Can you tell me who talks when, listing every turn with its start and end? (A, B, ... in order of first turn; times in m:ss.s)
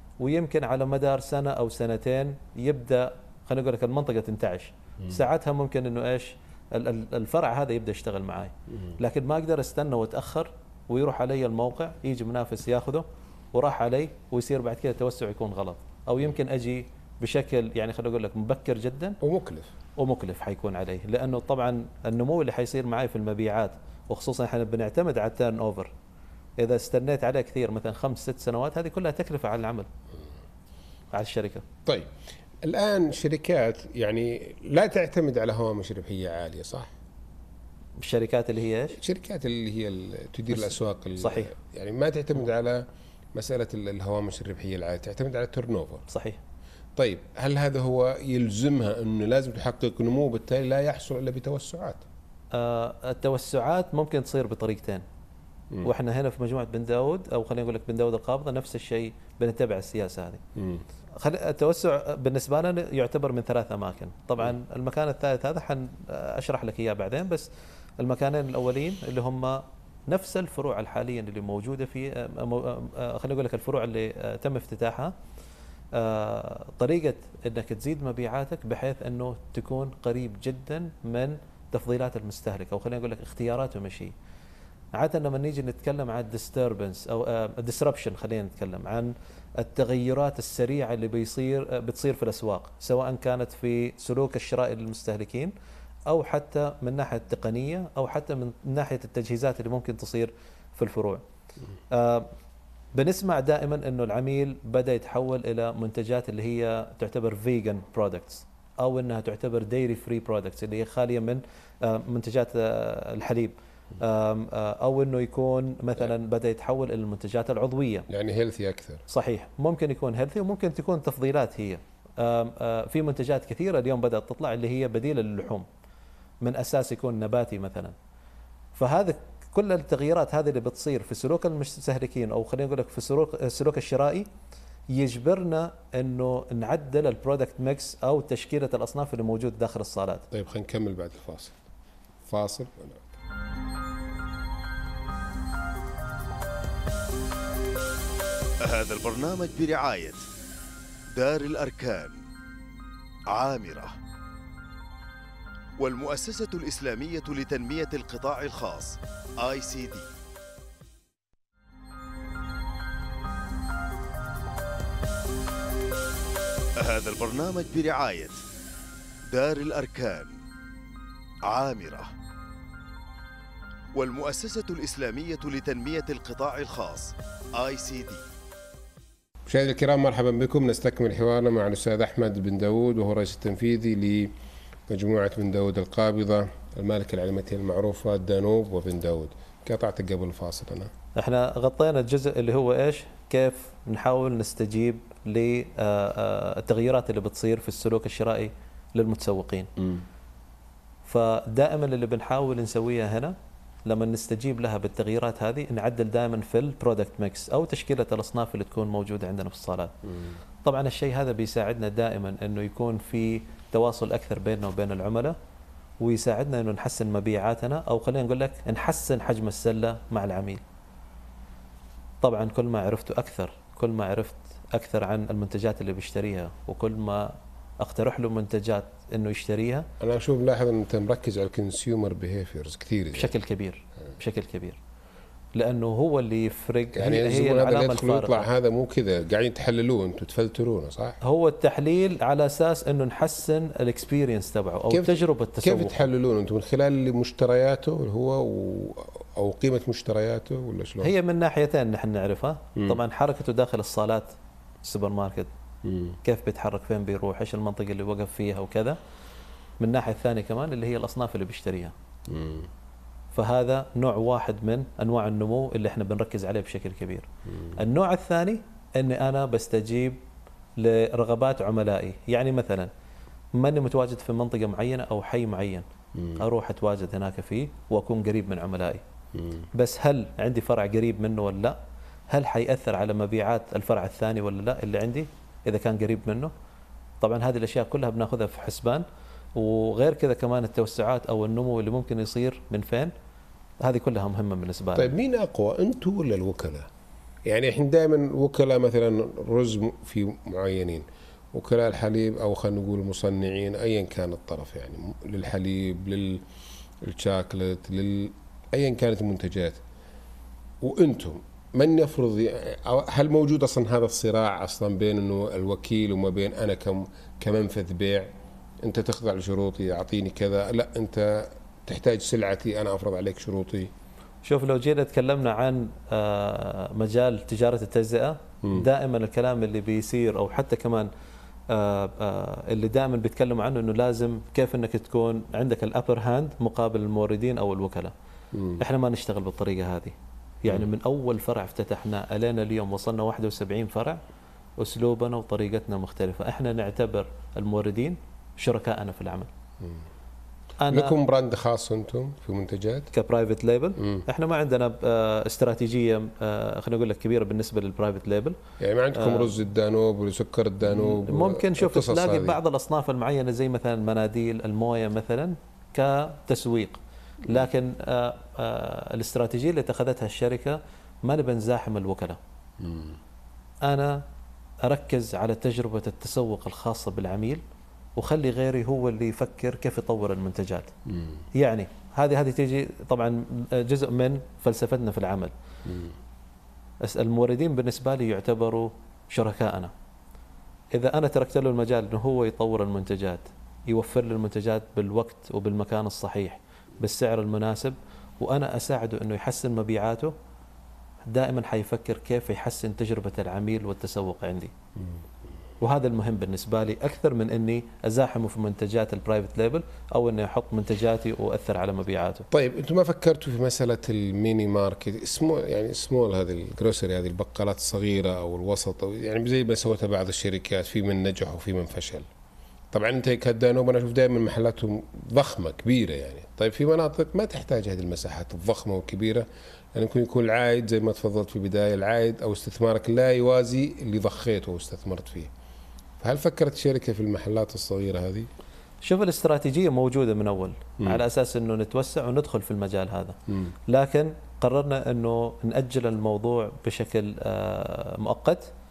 0:00.2-0:19.2 A
0:19.2-0:19.7 B
0:20.0-0:25.9 A
0:26.6-0:29.9 A
0:31.1-0:31.6 A
0:31.9-0:36.9 B
0:38.0-0:39.0 A
0:38.9-0:46.1 B
0:40.5-0:41.5 A
0:46.1-0:46.4 A
0:47.0-0:52.0 B
0:52.5-0:55.0 A
0:55.8-1:00.4 A
1:00.6-1:00.8 B
1:01.2-1:15.1 A
1:15.9-1:24.1 A
1:25.0-1:35.5 A
1:36.1-1:41.2 A
1:41.9-1:42.3 A
1:43.0-1:58.1 A
1:58.1-1:59.0 B
1:59.1-2:05.6 A
2:06.4-2:08.0 A
2:08.8-2:14.3 A
2:14.9-2:20.2 A
2:20.3-2:21.6 B
2:22.2-2:23.1 B
2:28.6-2:30.3 C
2:31.1-2:32.2 C
2:33.3-2:34.0 C
2:35.8-2:40.1 C
2:46.8-2:48.4 C
2:49.3-2:50.4 C
2:51.5-2:52.1 C
2:53.9-2:58.2 C
2:59.5-3:04.3 B
3:04.9-3:10.9 B
3:11.2-3:19.7 A
3:19.8-3:20.0 B
3:21.0-3:23.4 A
3:23.9-3:29.9 A
3:30.6-3:35.4 A
3:36.0-3:40.6 A
3:42.2-3:49.9 A
3:50.0-3:53.3 B
3:53.1-3:54.8 A
3:55.5-3:58.5 A
3:56.9-4:01.2 B
4:01.2-4:06.1 A
4:04.9-4:11.1 B
4:11.0-4:15.5 A
4:15.8-4:16.2 B
4:16.2-4:19.0 A
4:19.8-4:21.9 A
4:22.3-4:22.7 B
4:23.3-4:30.2 A
4:27.5-4:27.8 B
4:30.8-4:32.9 A
4:33.6-4:35.9 A
4:36.2-4:36.4 B
4:36.4-4:39.0 A
4:39.4-4:39.6 B
4:39.8-4:41.8 A
4:42.3-4:46.5 A
4:47.2-4:53.1 A
4:53.8-4:55.1 A
4:55.0-4:56.9 B
4:57.5-5:06.4 B
5:07.0-5:09.8 B
5:10.8-5:18.3 B
5:18.8-5:23.9 B
5:24.4-5:31.1 A
5:31.7-5:38.1 A
5:38.5-5:38.8 B
5:38.8-5:44.2 A
5:44.8-5:49.5 A
5:50.8-5:51.2 A
5:50.9-5:53.1 B
5:53.1-5:58.6 A
5:54.0-5:54.2 B
5:58.8-6:02.6 B
5:59.1-5:59.5 A
6:00.9-6:12.4 A
6:12.8-6:13.2 B
6:13.9-6:14.2 A
6:14.8-6:17.6 A
6:18.2-6:20.9 A
6:21.1-6:21.4 B
6:21.5-6:25.5 A
6:25.8-6:26.2 B
6:27.0-6:29.9 A
6:30.9-6:40.3 A
6:41.2-6:44.7 A
6:45.8-6:52.5 A
6:52.5-7:02.3 B
7:02.9-7:15.5 B
7:16.2-7:18.5 B
7:19.0-7:28.7 A
7:23.5-7:23.7 B